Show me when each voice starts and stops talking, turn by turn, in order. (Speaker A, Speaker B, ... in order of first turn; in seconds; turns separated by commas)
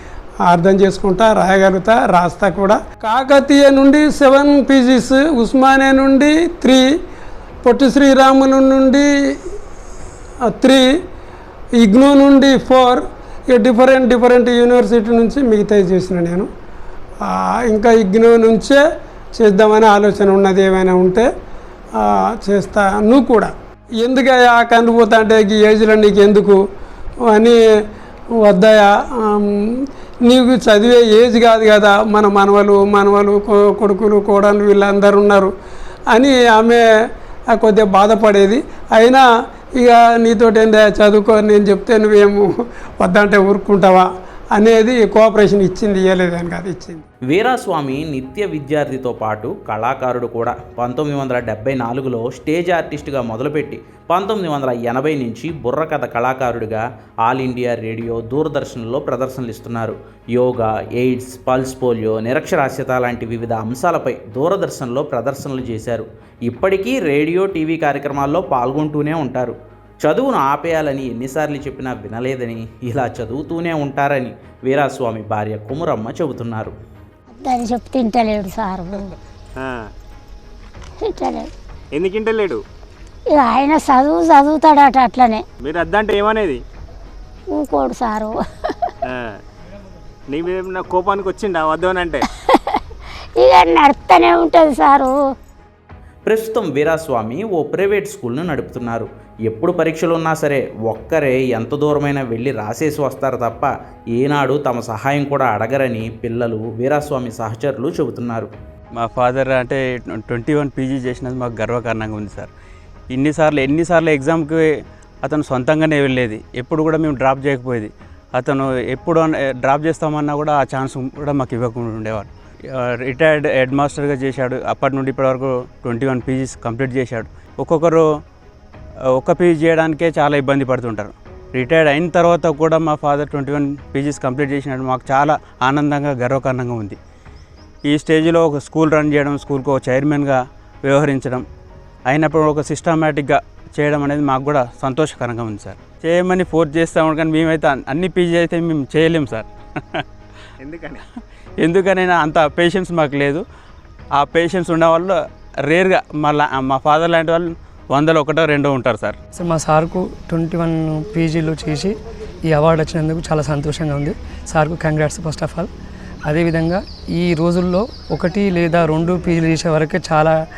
Speaker A: 0.5-6.8, Speaker A: 7.6-9.1, Speaker A: 10.5-10.8, Speaker A: 11.8-16.5, Speaker A: 17.2-18.8, Speaker A: 19.4-21.3, Speaker A: 22.0-26.6, Speaker A: 27.3-27.6, Speaker A: 28.4-35.5, Speaker A: 36.1-36.8, Speaker A: 37.5-39.2, Speaker A: 39.8-42.5, Speaker A: 43.0-47.0, Speaker B: 47.3-76.7, Speaker C: 77.3-79.1, Speaker D: 79.6-79.9, Speaker C: 81.0-81.5, Speaker D: 81.9-82.6, Speaker C: 83.3-85.4, Speaker D: 85.6-86.6, Speaker C: 87.5-88.9, Speaker D: 90.3-92.2, Speaker C: 92.3-92.8, Speaker C: 93.4-95.1, Speaker B: 96.2-108.5, Speaker E: 109.0-112.5, Speaker E: 113.1-114.6, Speaker E: 115.2-128.1, Speaker E: 129.1-137.0, Speaker E: 137.8-141.4, Speaker E: 142.1-150.0, Speaker D: 150.6-151.0, Speaker E: 151.6-153.4, Speaker E: 154.2-155.2, Speaker E: 155.7-159.2, Speaker F: 159.3-165.7, Speaker F: 166.2-170.4